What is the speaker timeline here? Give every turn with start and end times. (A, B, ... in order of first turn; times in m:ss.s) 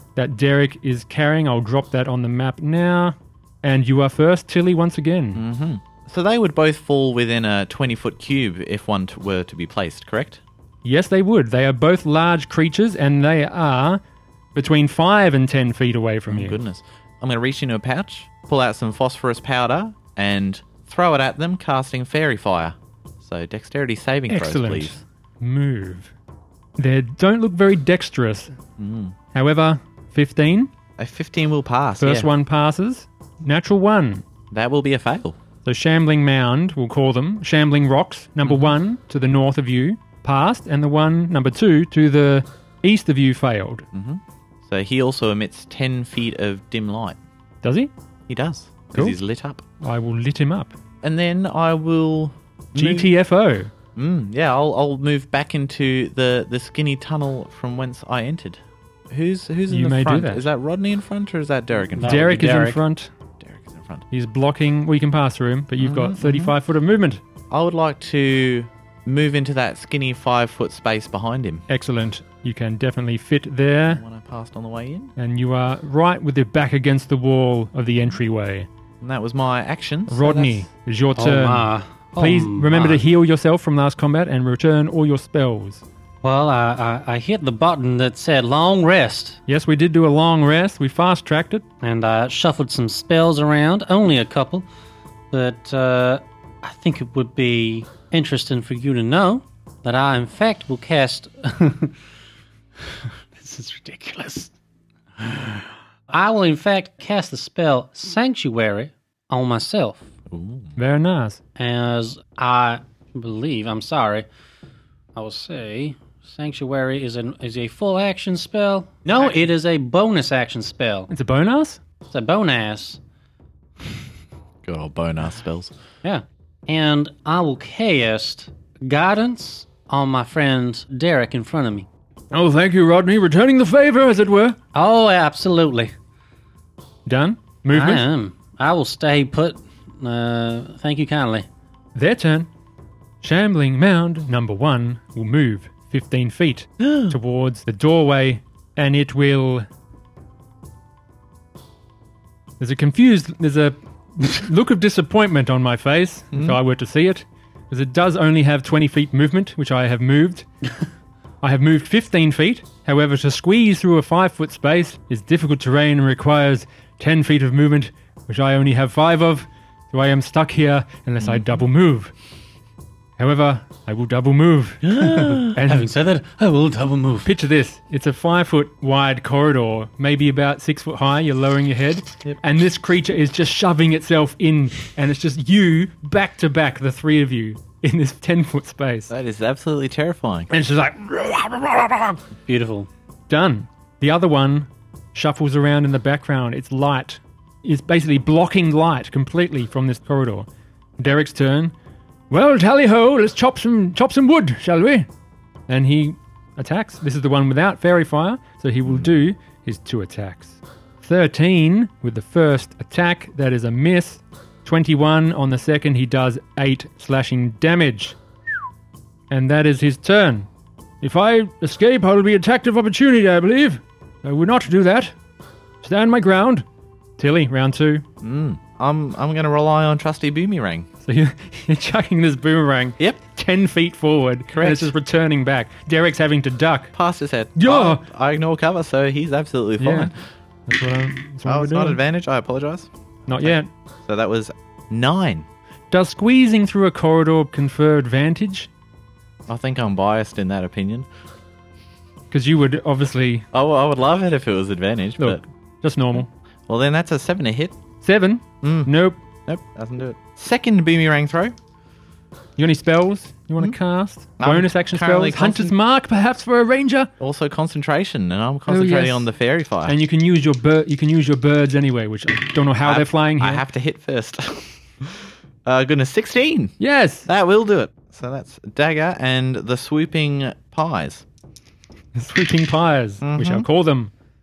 0:00.2-0:05.4 A
0:05.4-0:10.4 B
0:10.8-0:14.0 A
0:14.6-0:16.6 A
0:16.3-0:25.0 B
0:24.3-0:26.1 A
0:26.8-0:28.5 A
0:28.8-0:29.2 B
0:29.3-0:30.7 A
0:31.0-0:32.3 B
0:32.0-0:34.2 A
0:34.5-0:35.4 B
0:35.6-0:43.8 A
0:38.4-0:38.7 B
0:43.9-0:47.2 B
0:47.6-0:47.9 A
0:48.3-0:49.6 B
0:49.8-0:50.7 A
0:51.0-0:53.1 B
0:52.8-0:53.7 A
0:54.0-1:02.2 B
0:59.7-1:00.5 A
1:02.0-1:02.8 C
1:02.0-1:03.1 A
1:03.4-1:04.0 B
1:04.1-1:07.2 A
1:05.8-1:06.5 B
1:07.5-1:11.6 B
1:11.7-1:14.0 A
1:13.9-1:15.1 B
1:15.2-1:18.7 A
1:19.0-1:20.7 B
1:20.1-1:25.8 A
1:21.2-1:23.0 C
1:26.2-1:29.4 C
1:29.5-1:31.6 A
1:31.8-1:34.7 C
1:35.3-1:42.0 C
1:42.9-1:44.5 C
1:45.2-1:45.6 C
1:46.1-1:50.1 C
1:50.3-1:50.8 B
1:50.8-1:51.4 A
1:51.6-1:54.3 C
1:55.2-2:01.1 C
2:01.1-2:01.8 A
2:02.1-2:03.0 C
2:04.6-2:05.7 B
2:06.0-2:11.9 C
2:12.3-2:14.6 A
2:14.7-2:15.9 C
2:17.1-2:18.0 A
2:17.7-2:21.5 C
2:22.0-2:22.5 A
2:23.2-2:29.7 A
2:26.8-2:27.2 B
2:32.6-2:40.5 A
2:41.4-2:52.1 A
2:51.2-2:51.6 B
2:53.2-2:55.9 A
2:54.8-2:55.6 B
2:55.3-2:57.3 C
2:57.3-3:09.1 A
3:09.1-3:10.5 B
3:10.5-3:12.2 A
3:12.5-3:12.9 C
3:13.3-3:20.5 A
3:21.0-3:21.7 A
3:22.3-3:25.1 A
3:25.7-3:38.2 A
3:28.8-3:29.1 B
3:39.3-3:40.5 A
3:41.0-3:45.1 A
3:45.8-3:46.6 A
3:47.2-3:48.0 A
3:48.2-3:50.9 B
3:51.0-3:56.9 A
3:54.5-3:54.9 B
3:56.9-4:00.1 B
3:57.6-3:58.0 A
3:59.8-4:00.1 A
4:00.7-4:02.0 A
4:01.4-4:05.5 B
4:03.3-4:03.7 A
4:05.9-4:08.7 A
4:09.5-4:11.1 B
4:12.3-4:13.5 A
4:13.5-4:15.4 B
4:15.2-4:16.3 A
4:16.7-4:17.8 B
4:18.0-4:19.2 A
4:18.6-4:18.9 B
4:19.5-4:21.6 B
4:22.6-4:27.1 A
4:24.4-4:25.7 B
4:27.2-4:30.0 B
4:28.7-4:29.3 A
4:29.9-4:33.6 A
4:32.8-4:36.8 B
4:36.8-4:37.3 A
4:37.3-4:41.2 B
4:42.2-4:44.1 A
4:43.2-4:43.7 B